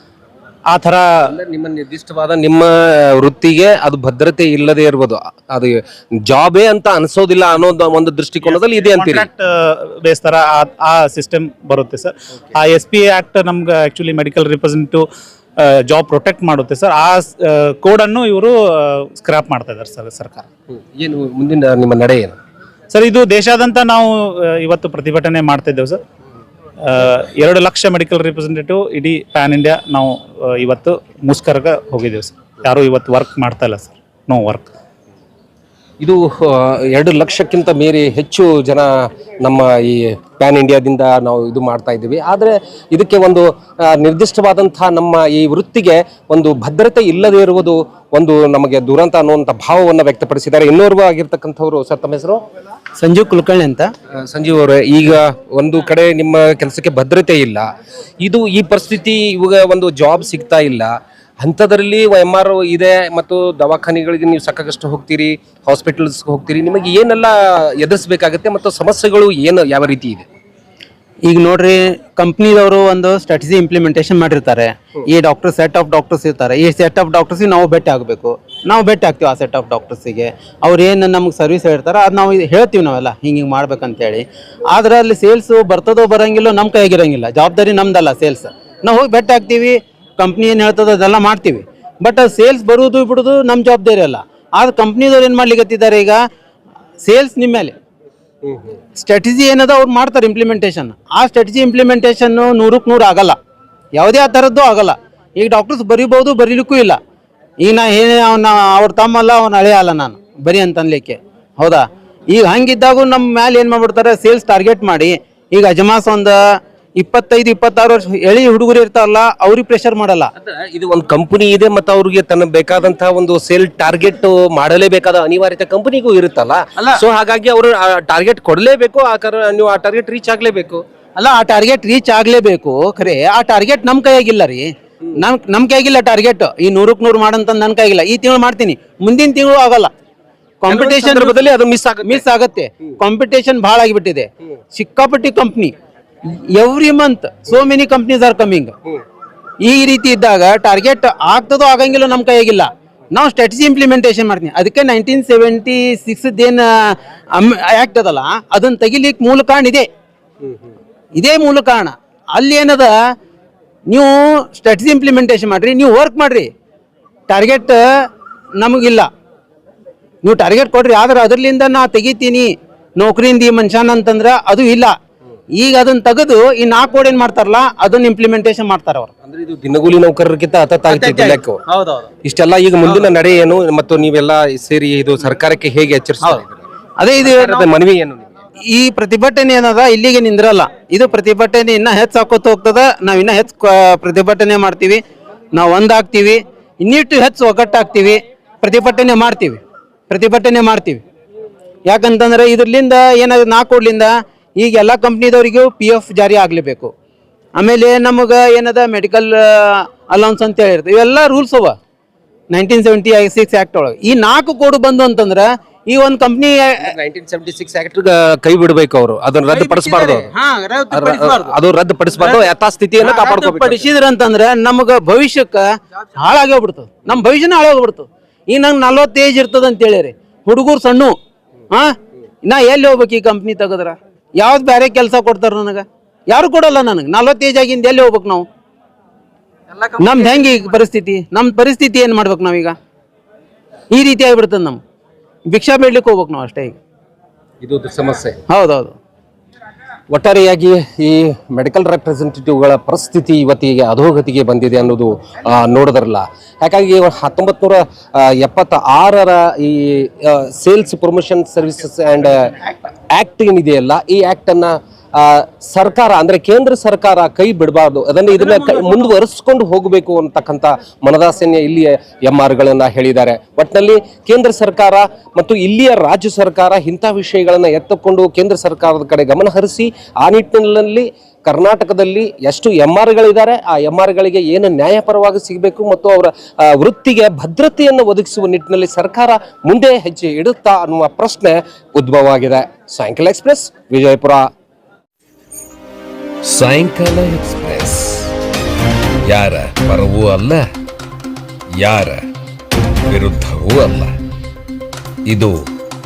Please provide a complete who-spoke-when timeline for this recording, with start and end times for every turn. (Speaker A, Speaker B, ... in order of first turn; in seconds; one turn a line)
Speaker A: 0.7-1.3
Speaker B: 1.3-9.3
Speaker A: 8.5-15.1
Speaker A: 15.6-20.5
Speaker B: 20.7-22.4
Speaker A: 22.9-26.0
Speaker A: 26.8-34.7
Speaker B: 36.0-52.4
Speaker C: 53.0-53.9
Speaker B: 54.2-57.7
Speaker B: 58.2-70.2
Speaker C: 71.2-96.2
Speaker C: 97.0-97.7
Speaker B: 98.5-98.7
Speaker C: 98.9-103.4
Speaker C: 103.9-107.0
Speaker C: 107.6-120.3
Speaker B: 120.4-130.8
Speaker C: 126.8-127.0
Speaker C: 131.2-139.9
Speaker C: 140.6-141.4
Speaker B: 140.7-142.2
Speaker C: 142.0-145.7
Speaker C: 146.2-148.8
Speaker C: 149.6-159.9
Speaker C: 161.1-163.1
Speaker C: 163.9-166.5
Speaker C: 167.3-169.1
Speaker C: 170.2-174.9
Speaker C: 175.6-179.1
Speaker B: 179.2-181.6
Speaker C: 180.9-182.1
Speaker B: 182.2-186.6
Speaker C: 187.0-187.7
Speaker B: 187.2-188.2
Speaker C: 188.6-195.0
Speaker C: 195.5-201.0
Speaker C: 201.9-206.9
Speaker C: 207.6-211.8
Speaker C: 212.5-216.9
Speaker B: 216.8-220.3
Speaker C: 219.5-221.6
Speaker B: 220.9-223.9
Speaker C: 222.2-222.5
Speaker C: 223.0-231.2
Speaker C: 231.7-238.5
Speaker C: 240.0-242.8
Speaker C: 243.9-244.8
Speaker C: 245.5-246.8
Speaker B: 247.6-248.4
Speaker C: 248.5-248.9
Speaker B: 250.1-262.5
Speaker B: 263.1-294.5
Speaker D: 296.5-298.3
Speaker D: 299.3-300.6
Speaker D: 301.8-302.2
Speaker D: 303.1-304.2